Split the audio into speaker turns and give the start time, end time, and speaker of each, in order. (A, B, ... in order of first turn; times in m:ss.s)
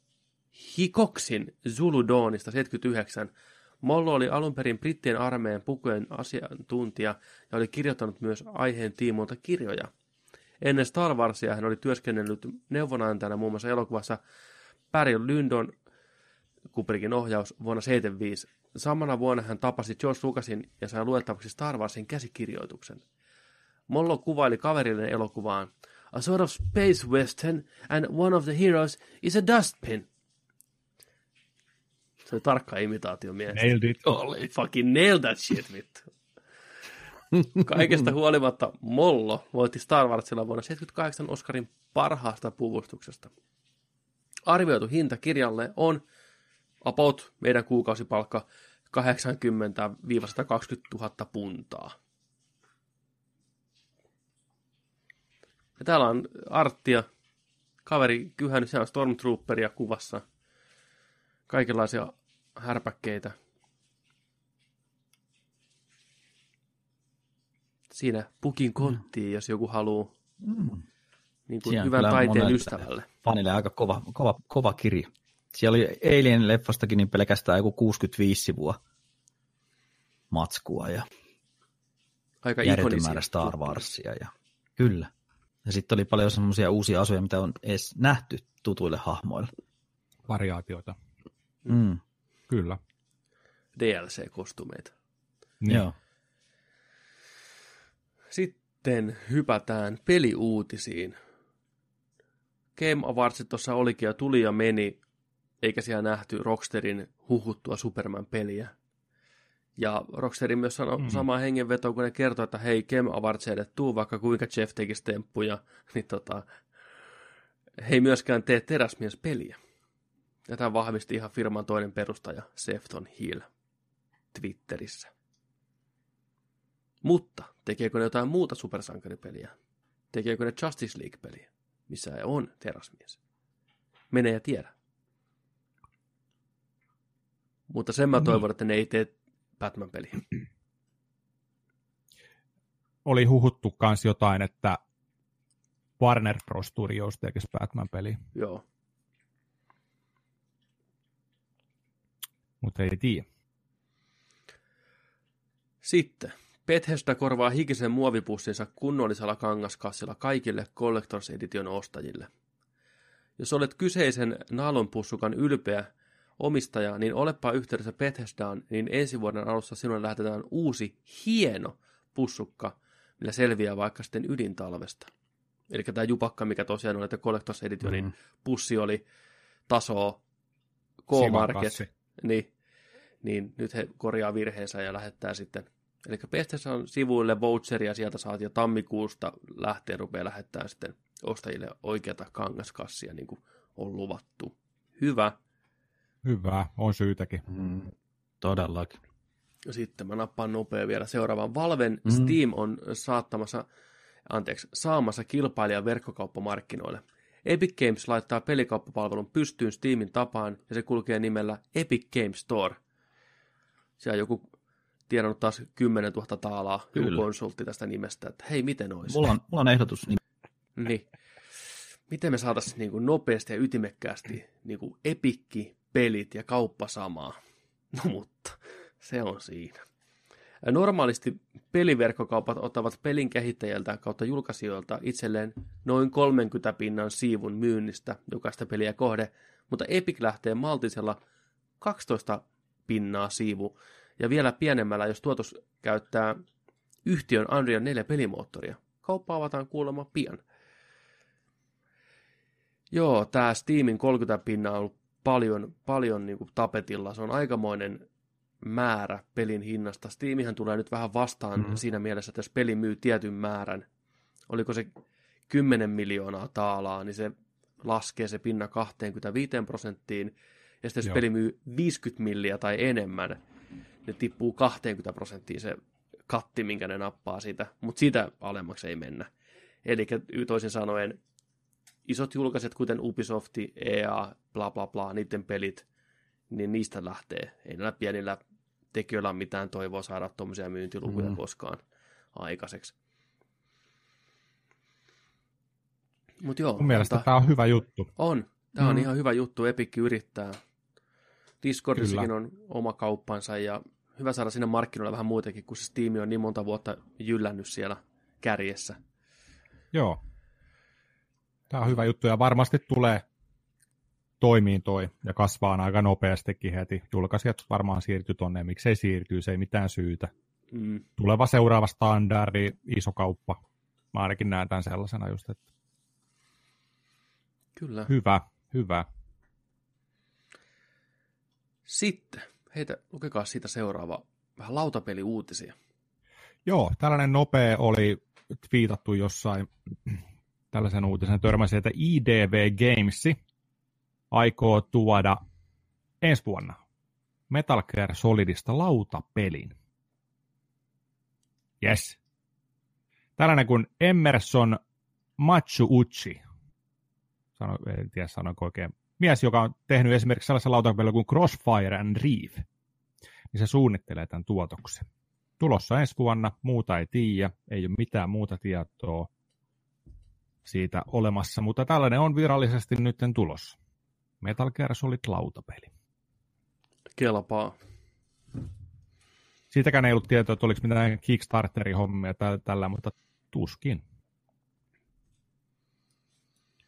0:00.5-0:09.9 A
0:10.6-0:14.2 A
0:14.9-0:15.7 A
0:16.7-0:23.0 A
0:23.9-0:30.1 A
0:32.2-0:36.1 A
0:33.5-0:34.0 B
0:37.6-0:43.3 A
0:44.5-0:46.0 A
0:46.8-0:52.0 A
0:55.8-0:57.1 A
0:57.8-1:00.2 A
1:01.5-1:03.3 A
1:07.9-1:10.1 A
1:10.4-1:10.8 C
1:11.5-1:13.1 A
1:11.7-1:18.8 C
1:20.3-1:21.1 C
1:22.4-1:23.9 A
1:22.6-1:25.1 C
1:25.6-1:29.5 C
1:30.3-1:31.0 B
1:31.7-1:32.0 C
1:32.5-1:32.8 B
1:33.8-1:34.9 A
1:35.6-1:35.9 B
1:35.7-1:35.9 C
1:38.3-1:41.2 A
1:42.8-1:45.0 A
1:45.6-1:48.7 A
1:49.8-1:56.4 A
1:57.8-1:59.6 A
2:00.5-2:03.5 A
2:04.3-2:05.1 A
2:07.0-2:09.5 A
2:10.1-2:13.2 A
2:14.1-2:14.7 A
2:17.7-2:20.3 A
2:23.0-2:24.8 B
2:26.0-2:28.2 B
2:28.4-2:28.6 A
2:32.6-2:33.2 B
2:35.8-2:42.3 A
2:43.4-2:55.1 A
2:55.7-2:59.0 A
2:59.7-3:00.2 A
3:01.1-3:02.5 A
3:01.1-3:01.9 B
3:03.2-3:15.4 A
3:16.2-3:17.4 B
3:17.5-3:19.0 C
3:19.7-3:23.7 A
3:22.1-3:22.3 C
3:24.3-3:32.8 A
3:34.0-3:34.5 A
3:35.1-3:39.3 A
3:37.0-3:37.2 C
3:39.1-3:40.2 C
3:40.8-3:41.1 A
3:42.1-3:47.4 A
3:47.9-3:49.8 A
3:50.6-4:01.2 A
4:01.8-4:06.4 A
4:07.0-4:10.4 A
4:12.9-4:18.0 A
4:18.6-4:23.9 A
4:24.5-4:24.9 A
4:25.5-4:33.4 A
4:34.0-4:35.8 A
4:36.3-4:39.3 A
4:39.8-4:41.2 A
4:42.1-4:45.8 A
4:46.5-4:48.4 A
4:48.9-4:51.8 A
4:51.1-4:51.4 C
4:52.3-4:53.0 A
4:56.4-4:57.3 A
4:56.8-4:58.1 B
4:58.2-5:00.6 A
5:01.6-5:09.0 A
5:02.0-5:02.3 B
5:09.9-5:10.2 B
5:11.7-5:13.2 B
5:14.4-5:20.3 B
5:20.7-5:21.0 A
5:21.2-5:23.6 B
5:24.1-5:25.6 B
5:27.8-5:28.1 A
5:28.1-5:29.1 B
5:31.9-5:35.8 A
5:36.7-5:40.2 B
5:40.7-5:43.4 B
5:44.3-5:45.4 B
5:46.2-5:46.8 B
5:47.5-5:49.8 B
5:51.8-5:52.2 B
5:53.4-5:54.8 B
5:55.4-5:56.4 B
5:57.6-6:02.6 B
6:03.5-6:05.1 B
6:05.6-6:09.3 B
6:10.6-6:13.8 B
6:14.4-6:15.9 B
6:17.2-6:17.8 A
6:19.7-6:24.0 B